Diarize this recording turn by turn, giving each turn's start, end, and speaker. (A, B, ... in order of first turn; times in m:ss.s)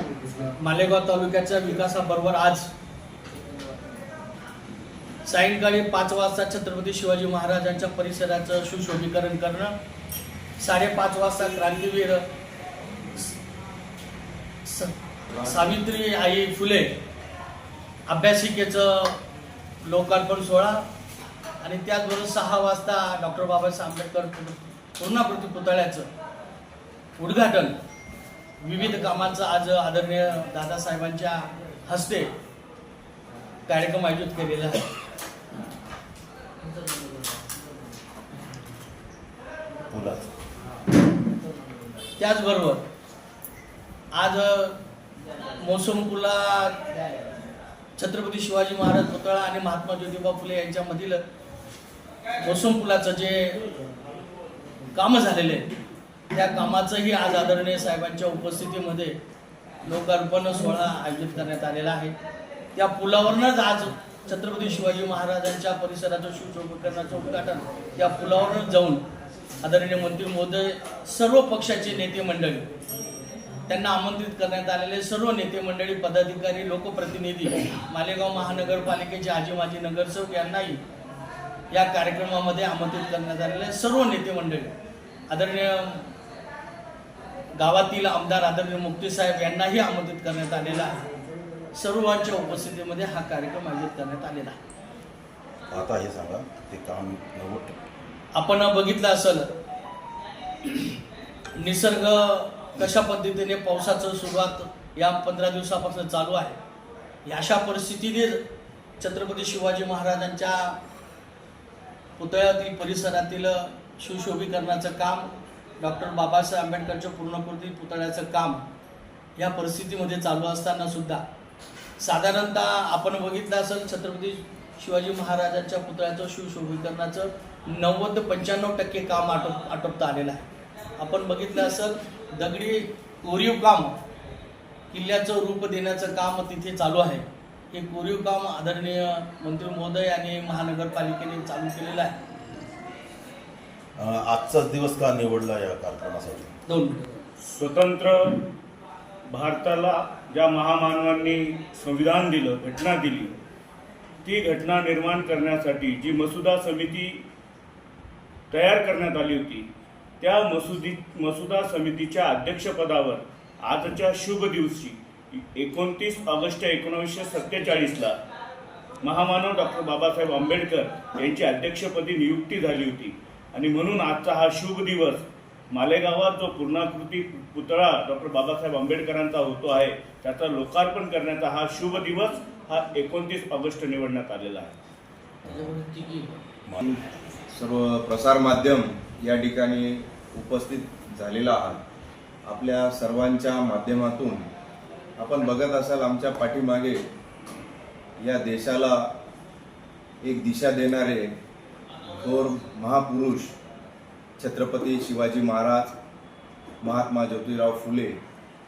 0:00.5-0:02.7 A
0:05.2-0:09.7 A
0:10.6-0:12.2 A
0:14.6-0:16.9 A
0:18.1-0:19.2 A
0:19.8-0:20.8 A
0:21.6-0:26.1 A
0:27.2-0:27.7 A
0:28.6-0:32.3 A
0:33.7-0:34.8 A
0:39.9-0:40.3 B
0:42.2-0:42.8 A
0:44.1-0:44.8 A
0:45.6-0:46.8 A
0:48.0-0:51.2 A
0:52.4-0:53.6 A
0:54.9-0:55.7 A
0:56.3-0:59.2 A
0:59.8-1:02.1 A
1:02.7-1:09.0 A
1:09.6-1:12.6 A
1:13.7-1:20.8 A
1:21.7-1:24.7 A
1:25.3-1:26.1 A
1:27.6-1:31.0 A
1:31.7-1:34.6 A
1:35.7-1:37.7 B
1:38.3-1:39.5 A
1:40.6-1:41.0 A
1:41.5-1:46.6 A
1:47.2-1:48.4 A
1:49.0-1:50.8 A
1:52.2-1:58.6 A
1:59.4-2:01.2 A
2:02.0-2:10.4 A
2:11.0-2:13.9 A
2:14.9-2:22.1 A
2:24.0-2:26.5 B
2:26.6-2:27.0 A
2:27.4-2:28.4 C
2:29.3-2:33.3 C
2:34.2-2:37.2 C
2:38.5-2:39.7 C
2:40.2-2:48.2 C
2:49.0-3:04.7 C
3:05.4-3:05.8 B
3:05.8-3:06.3 A
3:06.8-3:11.8 D
3:12.5-3:14.5 D
3:15.2-3:17.0 D
3:18.2-3:19.1 D
3:20.2-3:21.3 D
3:22.1-3:23.6 D
3:24.4-3:25.9 D
3:26.8-3:28.2 D